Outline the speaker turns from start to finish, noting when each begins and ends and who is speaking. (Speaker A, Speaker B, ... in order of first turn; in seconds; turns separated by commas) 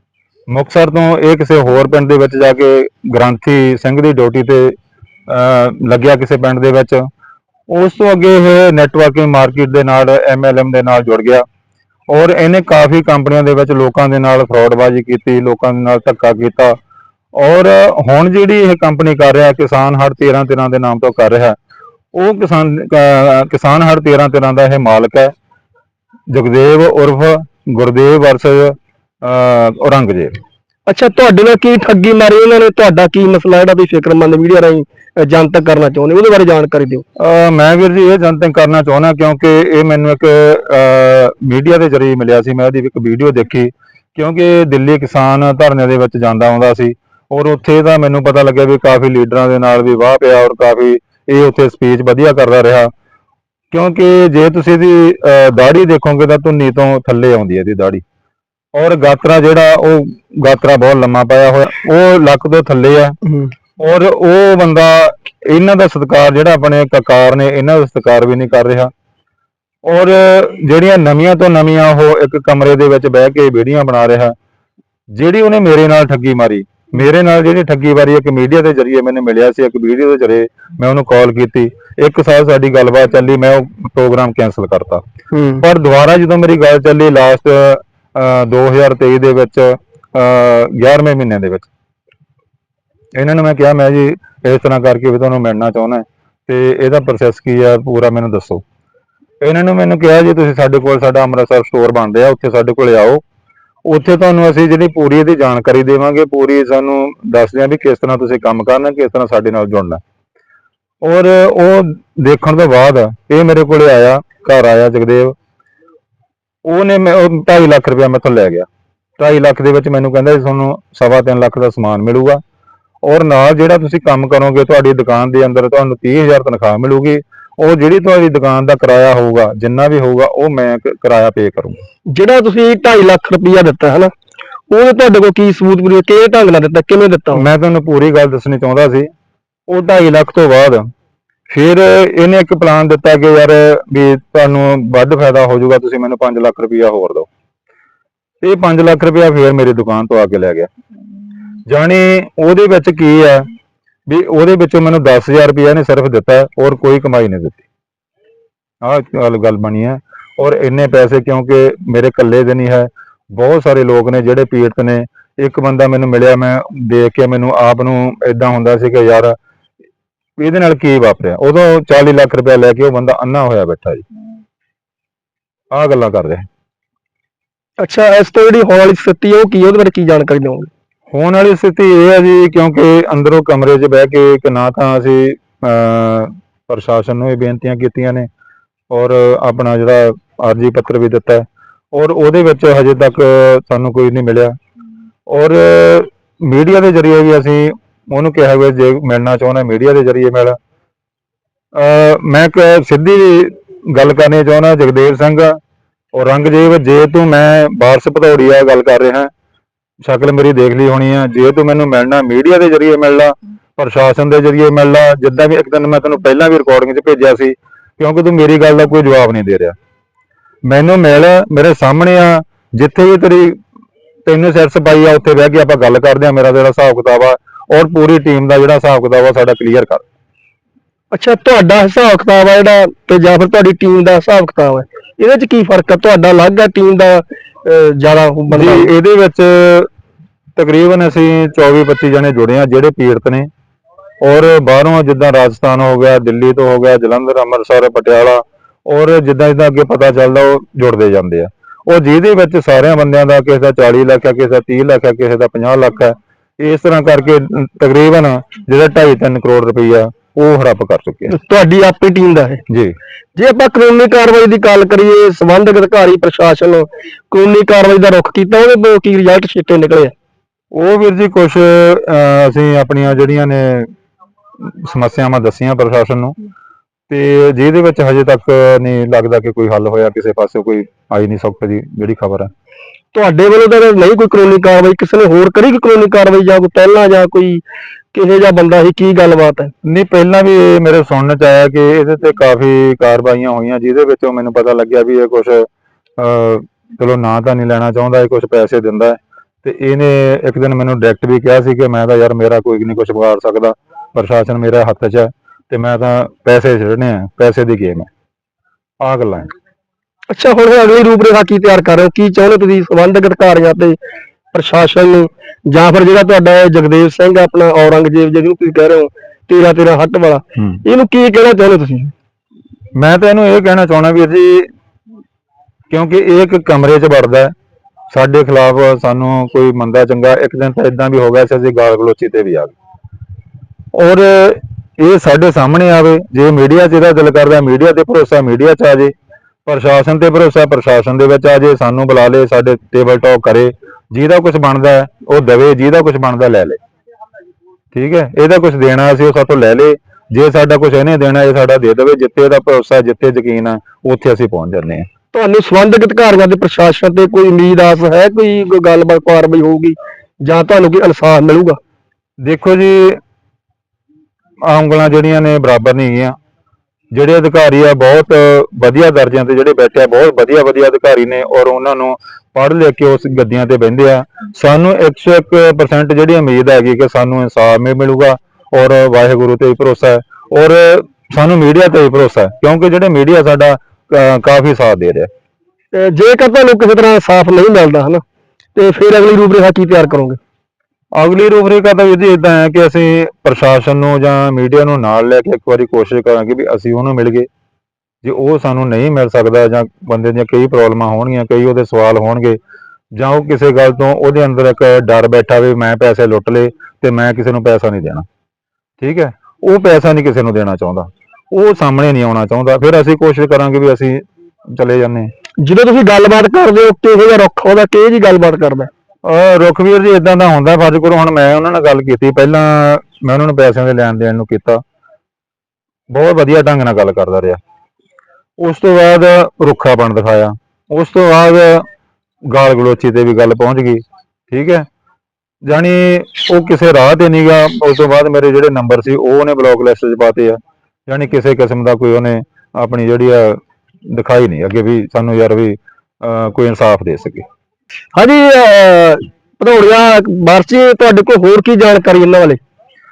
Speaker A: 0.5-4.7, Speaker A: 5.3-7.0, Speaker A: 7.7-11.4, Speaker A: 12.1-16.8, Speaker A: 17.3-21.6, Speaker A: 22.1-25.3, Speaker A: 26.3-30.4, Speaker B: 30.9-37.0, Speaker A: 37.2-52.9, Speaker A: 53.7-58.0, Speaker A: 58.7-63.1, Speaker A: 63.8-68.9, Speaker A: 69.8-74.3, Speaker A: 75.1-85.0, Speaker B: 85.3-85.6, Speaker A: 85.6-91.7, Speaker A: 93.2-98.6, Speaker A: 99.4-103.2, Speaker A: 103.8-110.0, Speaker A: 111.0-115.3, Speaker A: 116.6-118.7, Speaker A: 119.2-122.4, Speaker A: 123.0-131.8, Speaker B: 132.1-134.1, Speaker B: 134.7-137.4, Speaker A: 137.3-139.1, Speaker A: 139.7-140.8, Speaker A: 141.5-147.3, Speaker A: 148.4-150.7, Speaker A: 151.7-153.5, Speaker A: 154.1-157.6, Speaker A: 158.8-169.3, Speaker A: 170.4-174.0, Speaker A: 175.7-176.4, Speaker B: 177.8-180.7, Speaker A: 181.1-188.3, Speaker A: 188.9-194.6, Speaker A: 195.3-200.6, Speaker A: 201.7-205.6, Speaker A: 206.1-209.3, Speaker A: 210.0-219.8, Speaker A: 220.7-223.6, Speaker A: 224.2-230.0, Speaker B: 231.1-238.9, Speaker A: 238.5-239.9, Speaker A: 240.6-243.5, Speaker A: 244.2-261.3, Speaker B: 261.3-262.6, Speaker A: 262.7-262.9, Speaker B: 263.4-270.1, Speaker A: 270.7-273.9, Speaker A: 274.6-276.4, Speaker A: 277.1-282.5, Speaker B: 283.1-287.6, Speaker B: 288.1-289.7, Speaker A: 289.8-295.6, Speaker A: 296.2-308.1, Speaker A: 309.0-309.5, Speaker B: 310.3-314.0, Speaker B: 314.5-322.1, Speaker A: 322.9-324.7, Speaker A: 325.9-327.5, Speaker A: 328.1-332.7, Speaker A: 333.9-339.1, Speaker A: 339.6-346.8, Speaker A: 347.9-355.1, Speaker B: 355.3-361.8, Speaker A: 362.4-363.2, Speaker A: 364.6-366.3, Speaker A: 367.1-385.3, Speaker B: 385.9-388.2, Speaker B: 388.8-390.4, Speaker A: 391.1-397.5, Speaker A: 398.2-402.6, Speaker A: 403.1-408.2, Speaker A: 409.0-415.3, Speaker B: 415.6-418.9, Speaker A: 419.2-424.8, Speaker A: 426.1-427.6, Speaker A: 428.6-431.8, Speaker A: 432.5-434.8, Speaker A: 435.6-447.4, Speaker B: 448.1-452.6